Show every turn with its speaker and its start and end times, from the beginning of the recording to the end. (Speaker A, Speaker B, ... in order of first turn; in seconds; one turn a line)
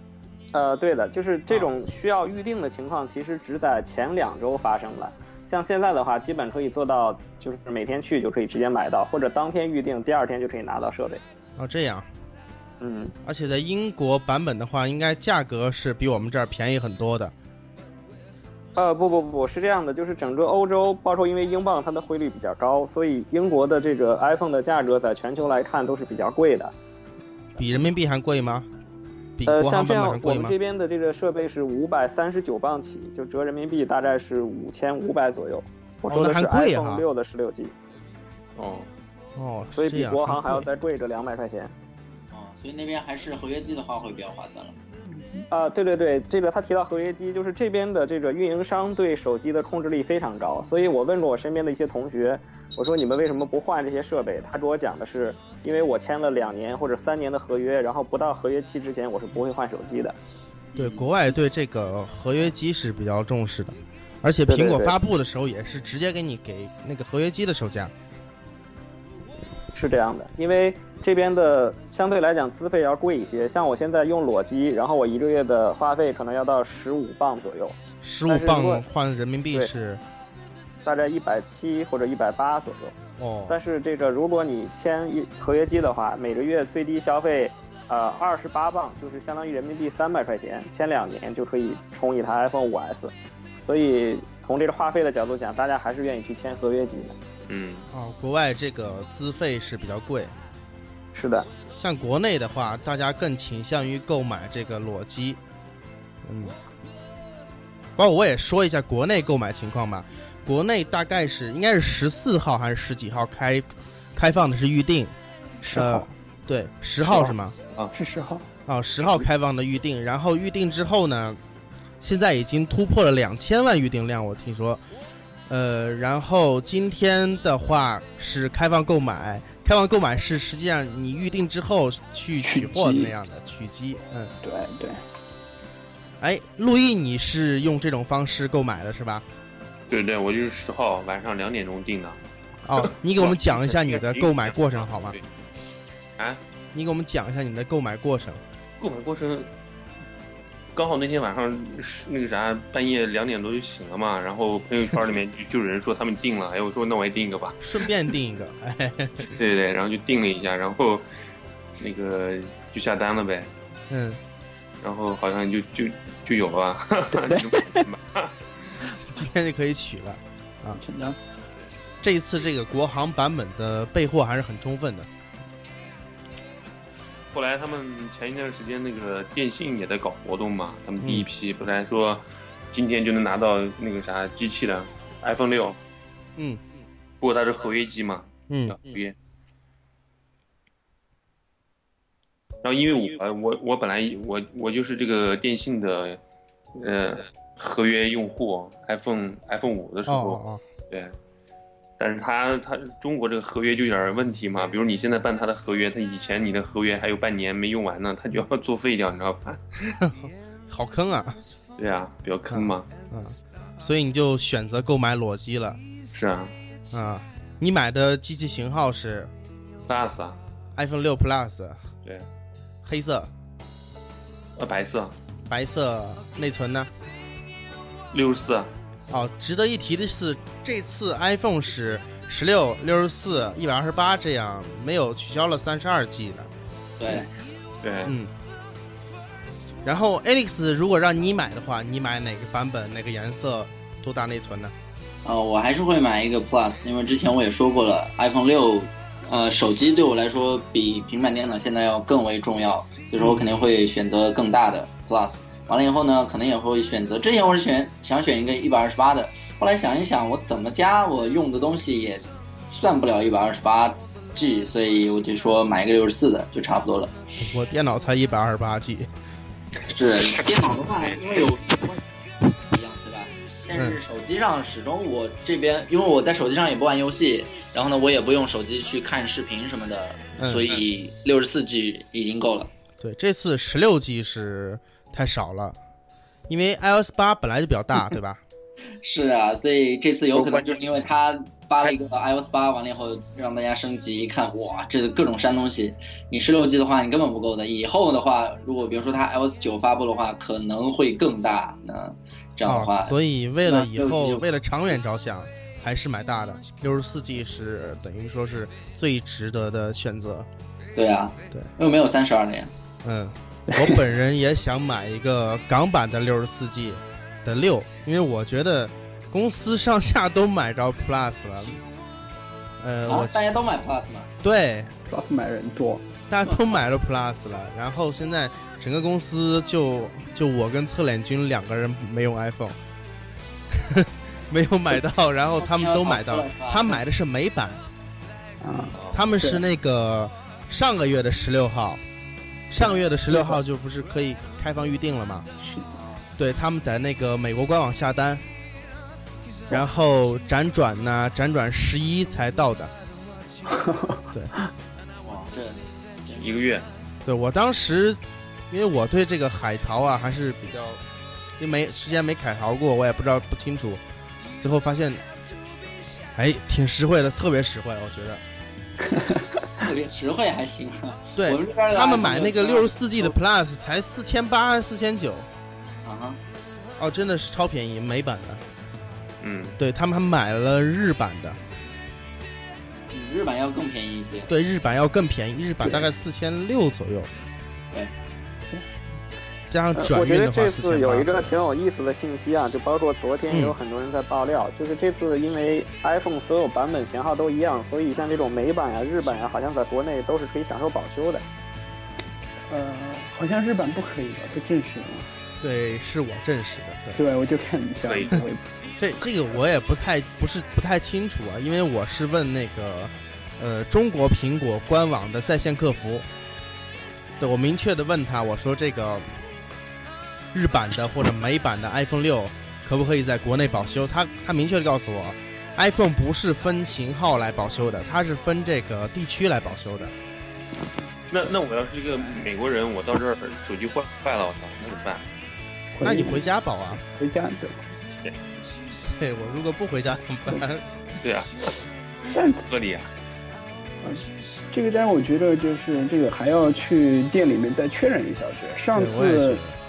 Speaker A: 0.5-11.2
Speaker B: 11.6-12.1
Speaker A: 12.8-13.1
Speaker B: 13.2-17.3
Speaker A: 18.8-26.7
Speaker B: 27.6-28.7
Speaker B: 29.4-30.5
Speaker A: 29.5-37.7
Speaker B: 36.1-37.0
Speaker C: 38.5-38.9
Speaker B: 39.4-40.6
Speaker A: 39.8-41.7
Speaker D: 42.3-44.7
Speaker A: 45.5-60.1
Speaker D: 60.7-61.0
Speaker B: 60.8-67.9
Speaker A: 64.5-64.9
Speaker A: 69.7-77.8
Speaker B: 78.0-80.0
Speaker A: 78.3-78.8
Speaker A: 80.8-83.0
Speaker B: 83.2-83.5
Speaker A: 83.5-97.2
Speaker C: 97.5-97.9
Speaker B: 97.9-100.3
Speaker A: 101.1-101.5
Speaker B: 101.7-105.4
Speaker B: 106.2-106.5
Speaker B: 108.0-115.1
Speaker E: 115.6-116.1
Speaker B: 115.7-117.5
Speaker E: 117.0-117.3
Speaker E: 117.9-118.5
Speaker B: 118.7-121.4
Speaker B: 122.0-124.8
Speaker B: 125.5-134.3
Speaker E: 132.4-133.1
Speaker E: 134.4-135.0
Speaker B: 136.2-139.2
Speaker C: 139.9-142.2
Speaker B: 142.6-145.2
Speaker C: 142.7-145.2
Speaker B: 146.7-148.4
Speaker C: 148.8-149.5
Speaker C: 150.7-157.6
Speaker B: 157.6-159.3
Speaker C: 159.3-161.1
Speaker C: 161.8-163.5
Speaker B: 163.9-164.2
Speaker C: 164.8-168.3
Speaker E: 167.2-167.8
Speaker B: 169.1-170.8
Speaker E: 170.8-171.2
Speaker B: 172.0-175.1
Speaker C: 177.3-185.8
Speaker B: 181.0-181.3
Speaker C: 187.2-189.1
Speaker B: 188.5-188.8
Speaker C: 192.6-196.2
Speaker C: 196.7-201.1
Speaker B: 200.1-200.6
Speaker C: 202.0-210.0
Speaker B: 210.0-211.4
Speaker C: 211.8-212.8
Speaker B: 212.5-215.8
Speaker C: 216.1-216.5
Speaker B: 216.9-219.3
Speaker C: 219.9-220.4
Speaker B: 220.7-221.9
Speaker B: 222.8-223.3
Speaker C: 224.6-225.1
Speaker B: 225.5-226.9
Speaker C: 228.1-228.7
Speaker B: 229.1-236.5
Speaker D: 237.0-237.3
Speaker C: 237.8-238.2
Speaker B: 238.0-238.3
Speaker B: 239.8-244.7
Speaker D: 245.2-267.1
Speaker B: 253.2-253.5
Speaker B: 267.4-269.1
Speaker D: 269.8-282.7
Speaker B: 273.7-274.0
Speaker B: 280.4-280.8
Speaker B: 283.0-285.8
Speaker B: 286.5-288.4
Speaker D: 289.0-304.4
Speaker C: 290.4-290.8
Speaker B: 302.6-310.5
Speaker D: 310.9-312.7
Speaker B: 313.0-321.8
Speaker E: 313.7-314.0
Speaker B: 322.8-323.4
Speaker D: 323.1-324.3
Speaker B: 324.4-324.9
Speaker E: 325.1-326.1
Speaker B: 326.3-332.8
Speaker B: 333.7-337.8
Speaker D: 335.6-337.0
Speaker E: 338.6-339.6
Speaker C: 338.9-339.2
Speaker B: 339.1-342.0
Speaker B: 342.7-345.5
Speaker E: 342.8-343.6
Speaker E: 345.6-345.9
Speaker D: 345.9-346.3
Speaker B: 346.4-348.4
Speaker B: 349.7-352.9
Speaker E: 353.7-354.7
Speaker D: 355.2-356.6
Speaker C: 356.4-356.9
Speaker B: 357.2-361.0
Speaker B: 361.6-364.0
Speaker B: 364.6-365.2
Speaker B: 366.3-368.4
Speaker E: 369.0-369.7
Speaker D: 369.8-373.3
Speaker B: 371.4-375.5
Speaker D: 376.0-376.4
Speaker B: 377.0-378.6
Speaker C: 379.4-379.8
Speaker B: 379.8-381.6
Speaker D: 383.1-384.5
Speaker B: 384.5-387.3
Speaker B: 389.7-391.5
Speaker A: 389.9-401.4
Speaker B: 393.5-393.8
Speaker E: 402.7-405.3
Speaker B: 405.6-407.2
Speaker E: 407.1-408.6
Speaker C: 408.0-408.4
Speaker B: 409.0-416.3
Speaker B: 417.4-419.4
Speaker B: 420.5-430.1
Speaker C: 431.3-435.2
Speaker E: 435.9-436.5
Speaker B: 436.0-437.0
Speaker E: 437.1-437.8
Speaker B: 439.0-440.8
Speaker C: 441.2-441.7
Speaker E: 442.3-442.6
Speaker C: 442.7-443.1
Speaker E: 444.0-449.6
Speaker B: 448.9-449.8